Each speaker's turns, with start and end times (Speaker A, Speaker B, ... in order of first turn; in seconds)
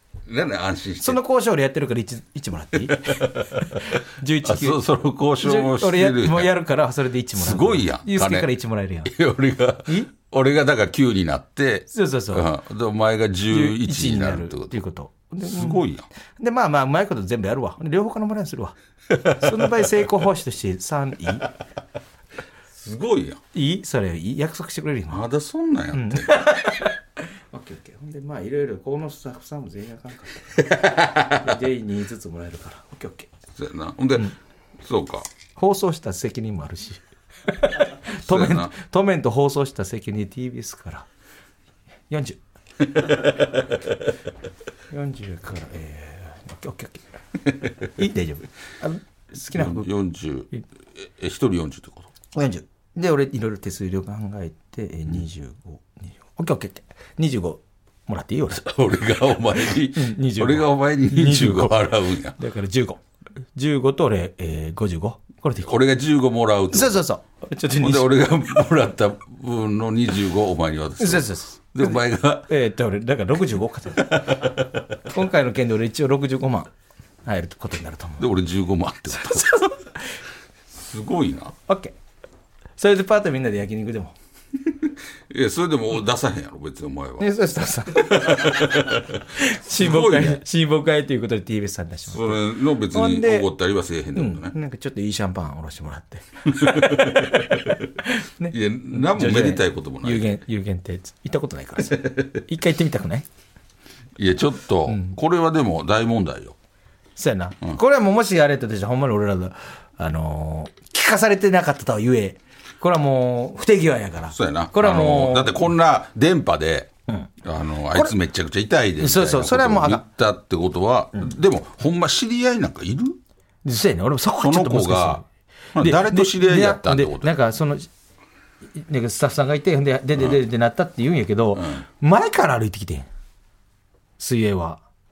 Speaker A: 0.3-1.2, 2.8-6.5, 7.3-8.5, 9.1-14.8, 15.4-16.1, 19.1-19.9, 22.7-23.4, 25.1-26.5, 30.8-31.3, 33.5-35.3, 38.2-38.7, 49.5-52.1, 58.5-62.4, 65.6-67.0, 67.8-72.5, 74.1-74.6, 78.2-79.5, 80.7-81.5, 84.8-87.3, 87.9-90.4, 92.1-94.5, 96.5-97.8, 98.5-100.4, 104.2-106.5, 114.3-116.9, 117.4-123.2, 124.4-125.2, 125.7-127.3, 130.2-130.4, 131.6-131.8
Speaker B: 1.0-4.8, 5.4-9.1, 9.9-10.1, 11.9-12.5, 13.5-15.8, 16.4-18.8, 19.3-21.5, 23.5-25.2, 25.9-27.0, 27.5-30.7, 31.2-33.3, 35.6-41.1, 42.1-42.4, 44.9-47.1, 47.8-49.9, 52.3-58.6, 59.9-61.8, 62.4-63.0, 63.5-65.7, 66.7-68.1, 71.0-76.7, 77.2-78.3, 79.1-80.0, 81.7-82.0, 82.8-84.1, 87.2-93.5, 94.1-103.3, 104.9-105.2, 107.2-115.7, 119.0-120.0, 123.7-125.2, 125.8-127.9, 128.8-133.1, 134.2-134.8